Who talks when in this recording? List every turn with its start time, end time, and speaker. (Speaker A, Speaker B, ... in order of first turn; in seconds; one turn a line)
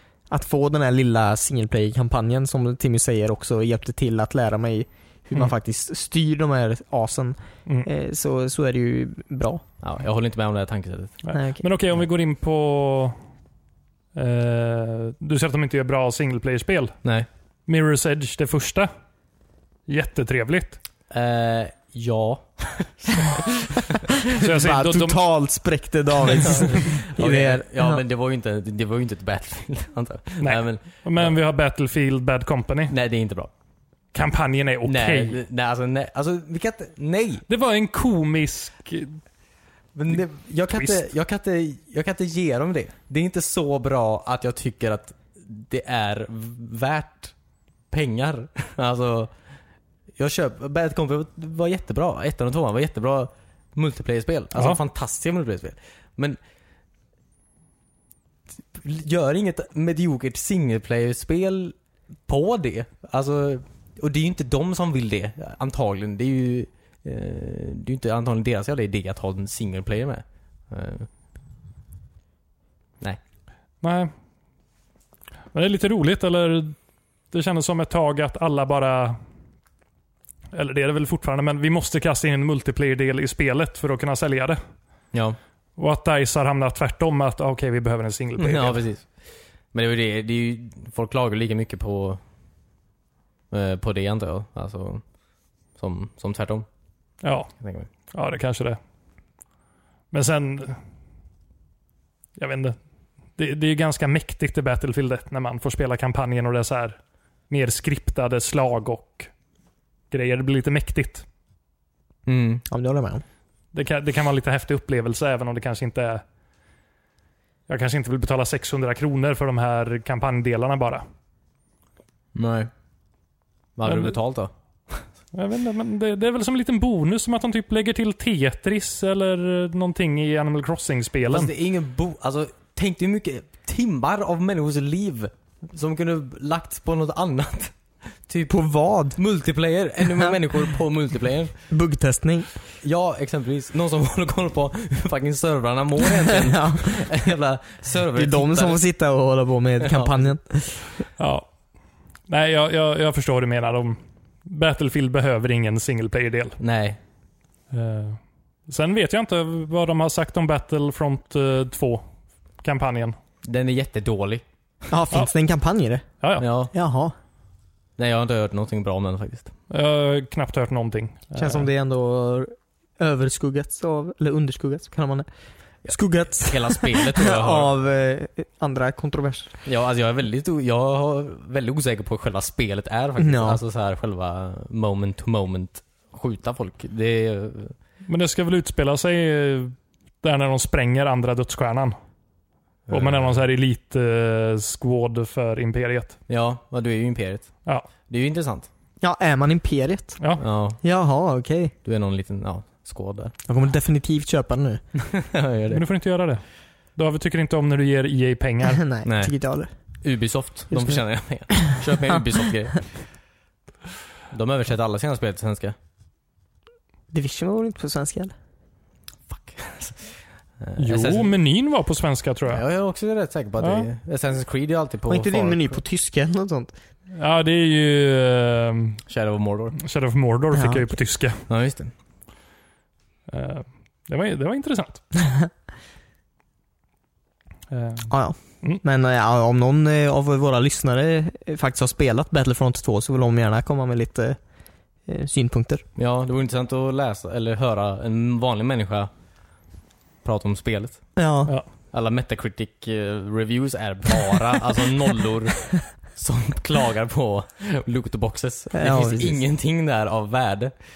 Speaker A: 0.3-9.6
Speaker B: 9.8-11.2
Speaker C: 11.2-13.2
Speaker A: 11.3-11.7
Speaker C: 14.1-16.9
Speaker C: 17.7-18.9
Speaker C: 19.9-20.8
Speaker B: 21.1-24.0
Speaker A: 24.3-28.0
Speaker C: 24.3-25.2
Speaker B: 26.3-31.4
Speaker C: 30.4-32.9
Speaker B: 32.9-33.5
Speaker C: 34.1-35.4
Speaker B: 34.8-37.4
Speaker C: 37.5-39.2
Speaker B: 39.9-47.3
Speaker C: 40.7-41.0
Speaker B: 47.9-49.3
Speaker B: 50.2-56.4
Speaker B: 58.7-61.7
Speaker B: 62.3-71.1
Speaker C: 73.8-74.1
Speaker C: 75.5-76.8
Speaker C: 77.3-79.2
Speaker C: 80.5-84.6
Speaker B: 85.1-85.4
Speaker C: 85.8-88.8
Speaker B: 88.4-89.1
Speaker B: 89.7-92.2
Speaker B: 93.5-95.0
Speaker B: 95.8-96.7
Speaker C: 97.2-97.5
Speaker B: 97.6-97.9
Speaker C: 98.1-98.8
Speaker C: 100.1-100.8
Speaker C: 102.4-102.8
Speaker C: 103.3-107.0
Speaker C: 107.5-109.3
Speaker C: 110.1-111.2
Speaker B: 112.2-112.6
Speaker A: 112.7-113.2
Speaker C: 113.7-116.2
Speaker C: 117.7-121.0
Speaker B: 122.3-122.7
Speaker B: 123.8-125.0
Speaker C: 123.8-124.1
Speaker C: 125.3-131.5
Speaker B: 131.2-138.5
Speaker A: 138.5-139.2
Speaker B: 139.2-141.5
Speaker A: 141.7-142.5
Speaker B: 142.8-148.8
Speaker A: 146.2-147.2
Speaker A: 148.1-150.9
Speaker B: 149.8-150.2
Speaker C: 151.2-151.5
Speaker C: 152.3-156.6
Speaker B: 156.6-157.0
Speaker C: 157.7-162.0
Speaker C: 162.6-163.2
Speaker B: 163.4-164.4
Speaker A: 164.9-166.0
Speaker C: 166.2-166.5
Speaker B: 166.4-166.7
Speaker A: 166.7-167.1
Speaker B: 168.0-169.5
Speaker C: 169.7-171.7
Speaker A: 171.3-175.3
Speaker B: 175.8-177.7
Speaker A: 175.9-179.5
Speaker B: 179.6-187.7
Speaker A: 183.2-183.6
Speaker C: 188.1-191.9
Speaker B: 192.9-193.4
Speaker C: 192.9-196.2
Speaker B: 196.3-197.5
Speaker B: 198.1-198.7
Speaker A: 199.0-200.2
Speaker C: 200.2-200.4
Speaker B: 200.4-200.8
Speaker A: 200.8-201.7
Speaker B: 201.8-203.3
Speaker A: 203.5-204.8
Speaker B: 204.9-205.8
Speaker C: 205.7-206.4
Speaker C: 206.9-208.8
Speaker A: 208.7-209.7
Speaker B: 209.0-209.3
Speaker B: 210.0-212.9
Speaker A: 210.7-211.8
Speaker B: 214.3-215.7
Speaker A: 217.1-218.3
Speaker B: 219.3-221.3
Speaker C: 220.8-222.6
Speaker B: 222.5-225.7
Speaker C: 223.6-223.9
Speaker A: 225.1-226.7
Speaker C: 227.1-229.0
Speaker B: 229.1-229.8
Speaker C: 229.8-231.4
Speaker A: 230.5-230.9
Speaker B: 231.5-231.9
Speaker C: 233.3-235.0
Speaker C: 237.7-238.8
Speaker A: 238.1-244.4
Speaker A: 245.1-245.8
Speaker B: 245.9-249.1
Speaker B: 250.2-251.0
Speaker A: 251.2-251.5
Speaker B: 251.9-260.7
Speaker A: 258.7-259.4